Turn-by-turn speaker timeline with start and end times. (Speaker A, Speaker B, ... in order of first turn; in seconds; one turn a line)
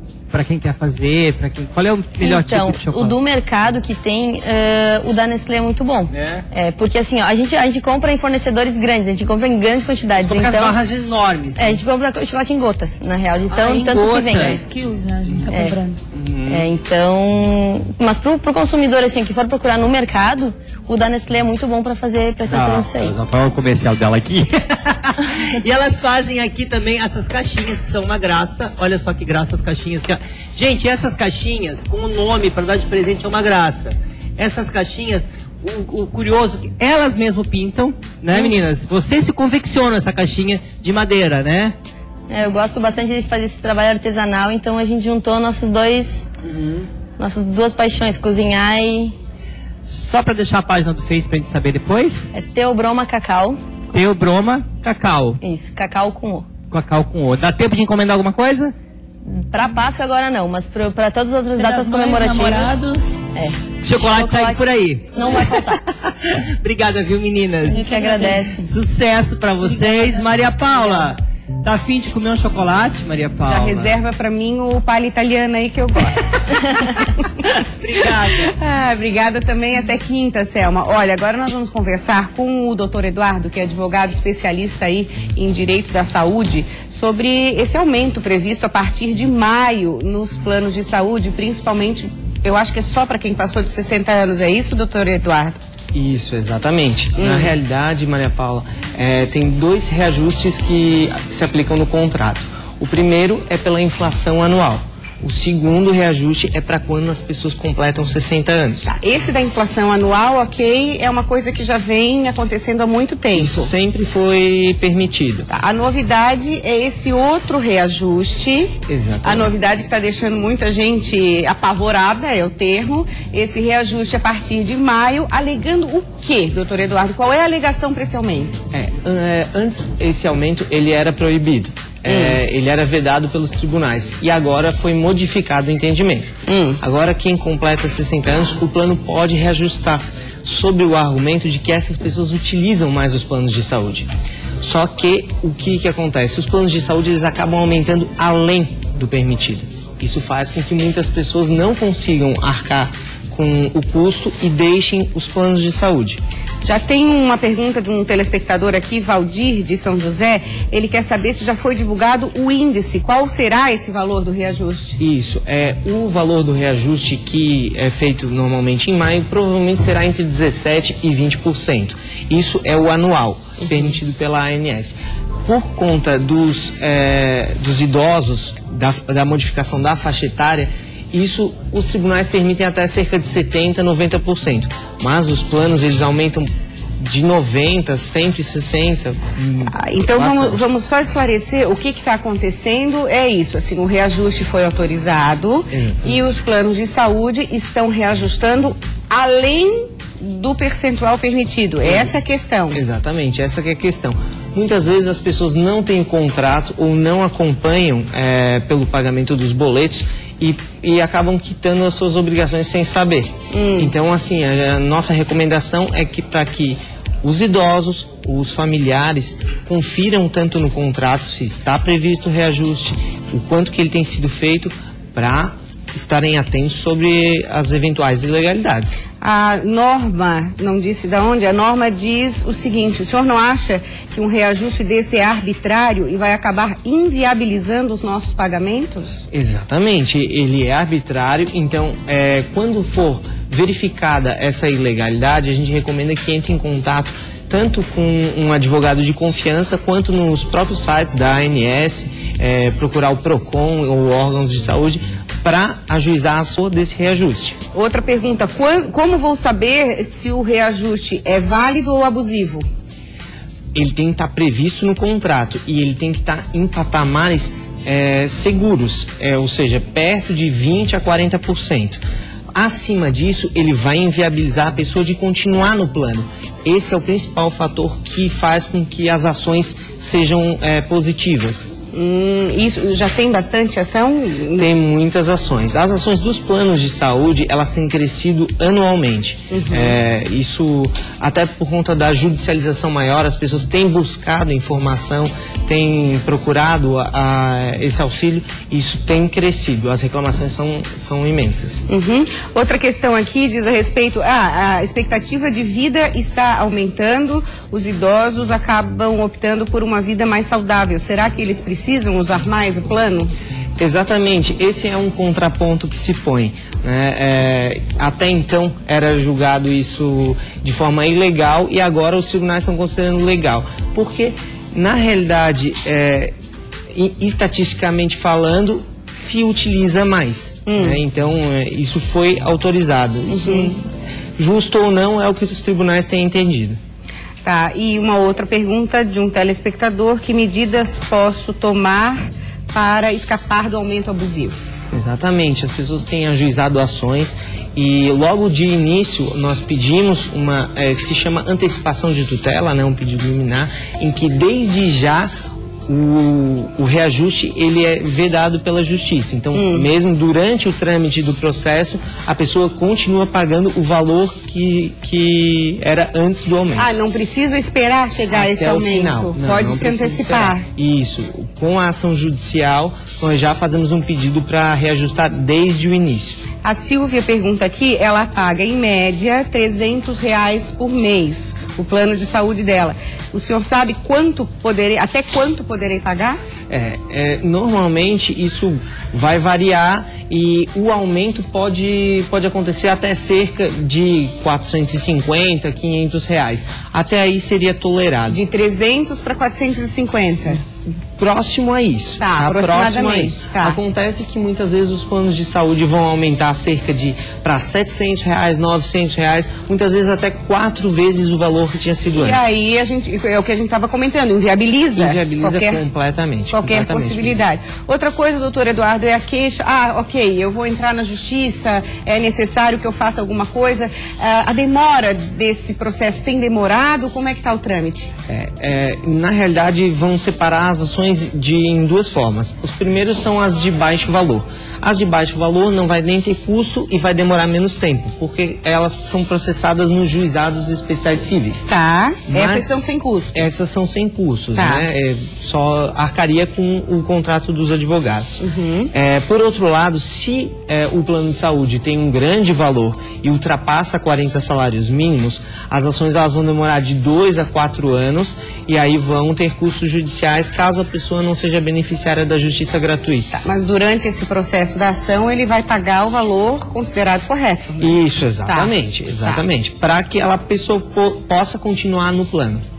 Speaker A: 0.3-3.1
Speaker B: 2.2-10.8
Speaker A: 6.1-6.4
Speaker A: 10.2-11.8
Speaker B: 11.6-14.7
Speaker A: 13.5-14.7
Speaker C: 14.5-16.0
Speaker A: 15.3-15.5
Speaker B: 15.5-15.8
Speaker A: 16.1-16.7
Speaker B: 16.5-23.1
Speaker A: 22.5-41.8
Speaker B: 42.3-46.3
Speaker A: 46.4-46.9
Speaker B: 47.2-49.1
Speaker A: 49.9-52.3
Speaker B: 52.3-53.6
Speaker A: 53.9-55.4
Speaker B: 55.4-56.5
Speaker A: 56.7-58.7
Speaker B: 59.2-65.8
Speaker C: 61.6-63.1
Speaker A: 63.8-74.0
Speaker C: 67.7-68.4
Speaker B: 67.7-68.7
Speaker C: 69.8-70.1
Speaker D: 73.4-76.3
Speaker A: 77.4-78.5
Speaker D: 78.4-95.6
Speaker E: 95.9-108.9
Speaker D: 97.2-97.5
Speaker D: 108.8-113.7
Speaker E: 113.3-115.5
Speaker D: 115.5-128.6
Speaker E: 118.9-119.5
Speaker E: 128.7-144.1
Speaker D: 132.1-132.4
Speaker D: 136.5-136.8
Speaker E: 144.6-156.2
Speaker D: 156.6-165.0
Speaker E: 165.0-190.6
Speaker D: 173.6-173.9
Speaker D: 189.7-202.8
Speaker E: 195.7-196.2
Speaker E: 202.7-229.0
Speaker D: 213.5-213.9
Speaker D: 229.2-239.2
Speaker E: 239.3-257.6
Speaker D: 257.7-262.7
Speaker E: 263.8-272.0
Speaker E: 272.5-281.8
Speaker D: 281.9-284.7
Speaker E: 284.6-301.9
Speaker D: 289.5-290.0
Speaker D: 301.9-313.3
Speaker E: 313.8-326.3
Speaker E: 326.9-333.9
Speaker D: 330.7-331.0
Speaker D: 333.3-333.8
Speaker E: 334.4-336.8
Speaker D: 337.4-344.8
Speaker E: 344.9-355.3
Speaker E: 355.9-366.9
Speaker D: 359.5-359.9
Speaker D: 366.8-370.7
Speaker E: 368.3-376.4
Speaker D: 376.6-386.4
Speaker E: 386.7-398.4
Speaker D: 398.3-400.6
Speaker E: 401.2-412.5
Speaker D: 402.2-403.8
Speaker D: 412.1-415.8
Speaker E: 414.9-417.4
Speaker D: 416.5-428.1
Speaker E: 428.3-441.7
Speaker D: 441.7-443.4
Speaker E: 442.3-442.7
Speaker E: 443.3-463.3
Speaker D: 444.6-444.9
Speaker D: 448.4-448.9
Speaker D: 463.3-468.7
Speaker E: 467.8-472.6